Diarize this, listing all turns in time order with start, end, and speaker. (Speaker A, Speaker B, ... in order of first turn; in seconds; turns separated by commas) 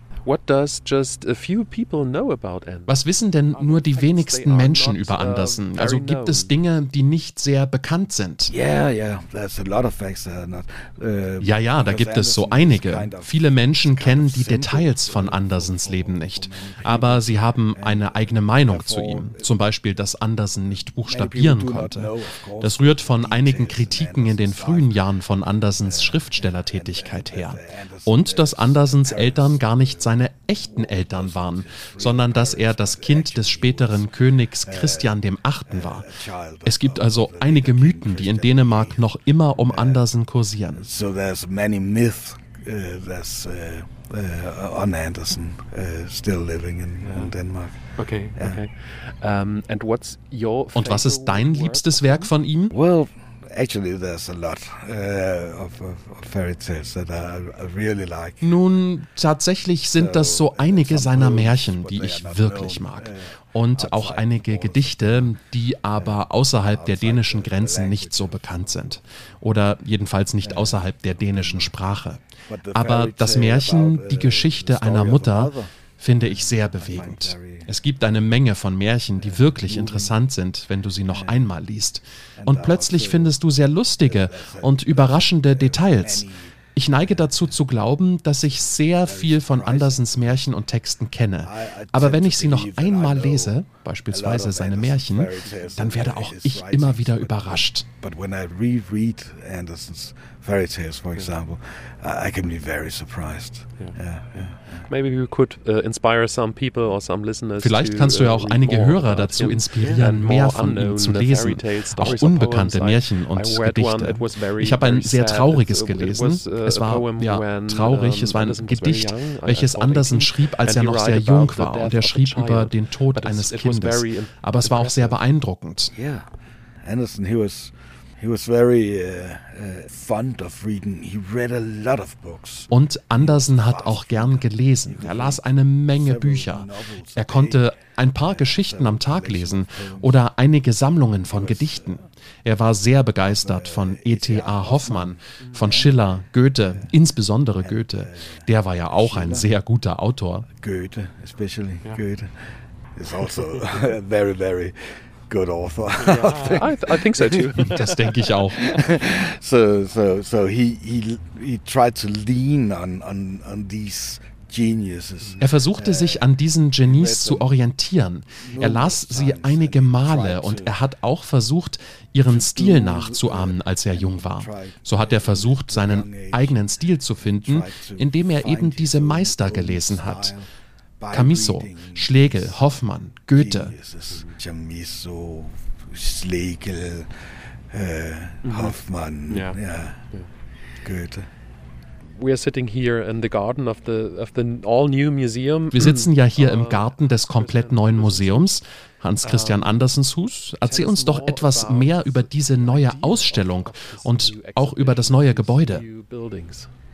Speaker A: 0.2-3.0, Speaker B: 2.9-8.5, Speaker A: 3.5-6.5, Speaker C: 8.5-19.5, Speaker B: 11.4-36.1, Speaker C: 21.0-25.0, Speaker C: 25.8-34.0, Speaker C: 34.6-35.1, Speaker C: 35.7-40.0, Speaker B: 36.6-40.9, Speaker C: 40.7-48.6, Speaker A: 47.0-47.3, Speaker A: 48.0-52.3, Speaker B: 50.7-52.7, Speaker C: 52.7-58.6, Speaker B: 58.4-97.8, Speaker C: 59.9-65.3, Speaker C: 66.0-68.9, Speaker C: 70.4-71.7, Speaker C: 72.5-75.7, Speaker C: 76.3-77.7, Speaker C: 79.2-80.1, Speaker C: 81.1-81.4, Speaker C: 82.4-83.4, Speaker C: 84.0-87.3, Speaker C: 88.9-90.0, Speaker C: 91.4-104.8, Speaker A: 104.9-125.2, Speaker B: 107.6-125.9, Speaker C: 109.8-110.0, Speaker C: 125.9-126.3, Speaker C: 126.8-137.7, Speaker B: 132.7-150.4, Speaker C: 138.2-140.2, Speaker C: 141.3-142.1, Speaker C: 143.2-146.1, Speaker A: 145.4-145.7, Speaker C: 146.7-146.9, Speaker C: 147.6-149.5, Speaker C: 150.6-157.6, Speaker A: 156.0-158.2, Speaker B: 157.6-158.8, Speaker C: 158.3-166.3, Speaker B: 165.4-180.3, Speaker C: 166.8-167.6, Speaker C: 168.4-170.8, Speaker C: 172.2-176.6, Speaker C: 177.2-180.5, Speaker C: 181.0-182.7, Speaker B: 181.1-183.7, Speaker C: 183.3-190.0, Speaker A: 184.1-184.4, Speaker A: 188.4-188.8, Speaker A: 189.3-189.6, Speaker C: 190.8-191.3, Speaker A: 192.1-198.5, Speaker B: 195.7-205.8, Speaker A: 199.2-199.8, Speaker A: 200.6-206.7